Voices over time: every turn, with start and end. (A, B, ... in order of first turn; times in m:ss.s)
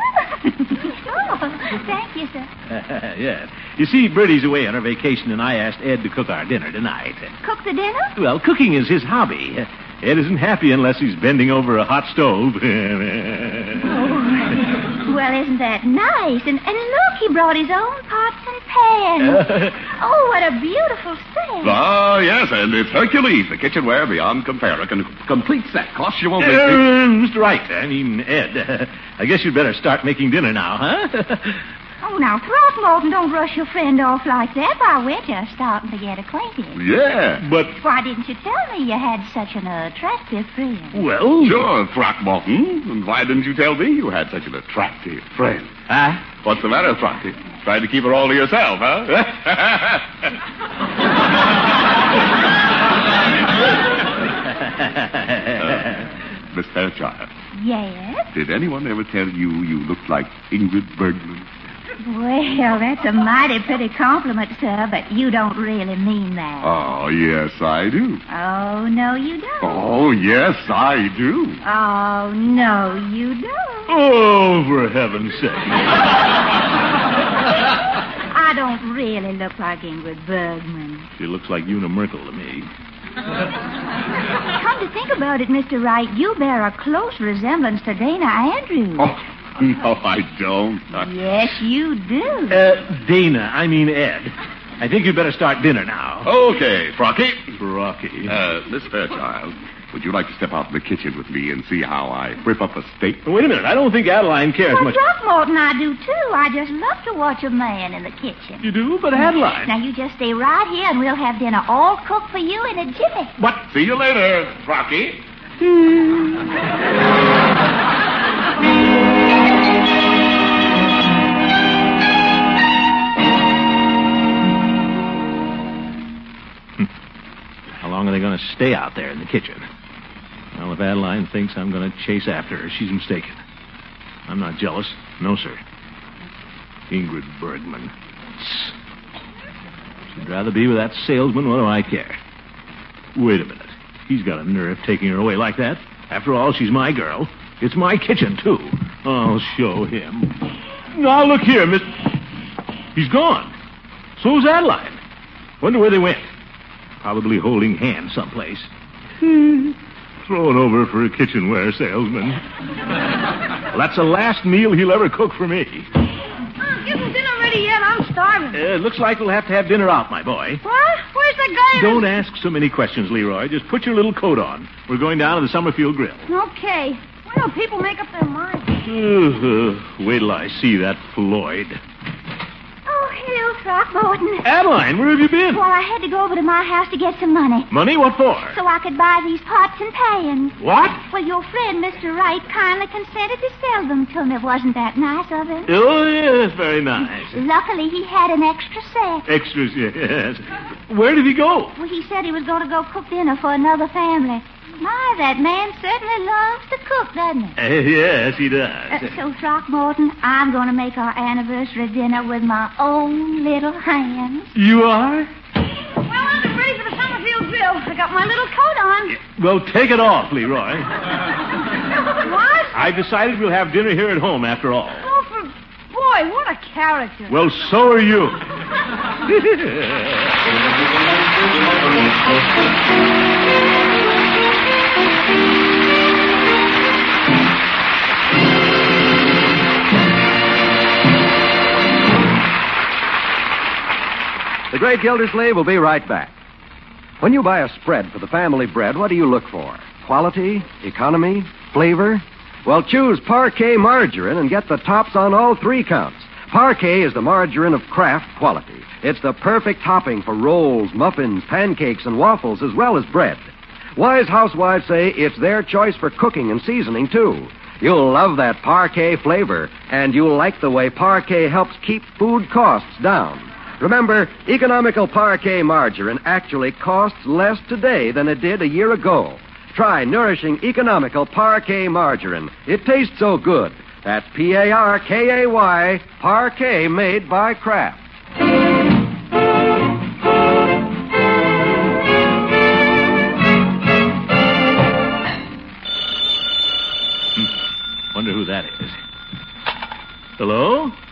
0:00.6-0:02.5 A
0:02.7-0:07.4 B
0:07.4-0:08.1 A
0:08.2-0:13.9 B
0:13.8-0:21.8 A
0:19.2-0:19.8 B
0:21.6-0:26.9 C
0:26.4-0:31.6 B
0:32.0-0:36.8 A
0:36.7-0:37.4 C
0:37.4-0:37.8 B
0:37.8-0:41.0 A
0:40.9-0:41.6 B
0:41.4-0:45.7 C
0:45.9-0:46.2 B
0:46.3-0:50.0 C
0:55.0-0:55.6 B
0:55.6-0:56.0 C
0:56.5-0:57.3 C
0:57.5-0:58.3 A
0:58.3-1:01.4 C
1:02.0-1:06.7 A
1:06.6-1:08.2 C
1:08.3-1:09.8 A
1:09.6-1:11.6 C
1:11.6-1:13.9 A
1:13.9-1:15.9 B
1:18.3-1:21.1 A
1:21.2-1:22.7 B
1:24.5-1:29.1 A
1:29.0-1:31.1 C
1:31.0-1:32.6 A
1:32.5-1:36.3 B
1:36.2-1:37.6 C
1:37.6-1:38.3 B
1:38.2-1:43.2 C
1:43.2-1:45.0 B
1:44.6-1:48.6 A
1:48.6-1:49.7 B
1:49.6-1:53.3 A
1:53.4-1:55.2 C
2:07.8-2:09.6 B
2:10.5-2:13.4 B
2:14.3-2:15.6 B
2:16.9-2:18.7 B
2:20.1-2:22.2 B
2:23.1-2:32.0 B
2:32.9-2:33.5 B
2:34.2-2:35.0 B
2:35.6-2:36.3 B
2:37.0-2:38.7 B
2:39.2-2:42.4 B
2:43.7-2:45.9 B
2:46.6-2:48.6 D
2:48.5-2:50.6 B
2:50.6-2:52.1 D
2:51.7-2:56.2 B
2:56.3-2:58.7 D
2:58.8-3:01.8 B
3:02.8-3:04.5 A
3:04.4-3:05.6 B
3:05.5-3:07.7 A
3:07.7-3:08.6 B
3:08.5-3:15.7 A
3:10.6-3:11.0 B
3:15.6-3:17.4 B
3:17.3-3:19.2 A
3:19.2-3:21.8 B
3:21.8-3:27.5 A
3:27.6-3:29.2 B
3:28.9-3:34.5 A
3:34.5-3:35.3 B
3:36.0-3:39.2 D
3:39.1-3:40.9 B
3:42.2-3:42.8 D
3:42.7-3:45.0 B
3:45.0-3:47.4 D
3:47.3-3:48.4 B
3:49.3-3:50.0 B
4:04.7-4:06.3 E
4:07.2-4:48.0 E
4:58.1-4:58.9 B
5:00.4-5:00.9 B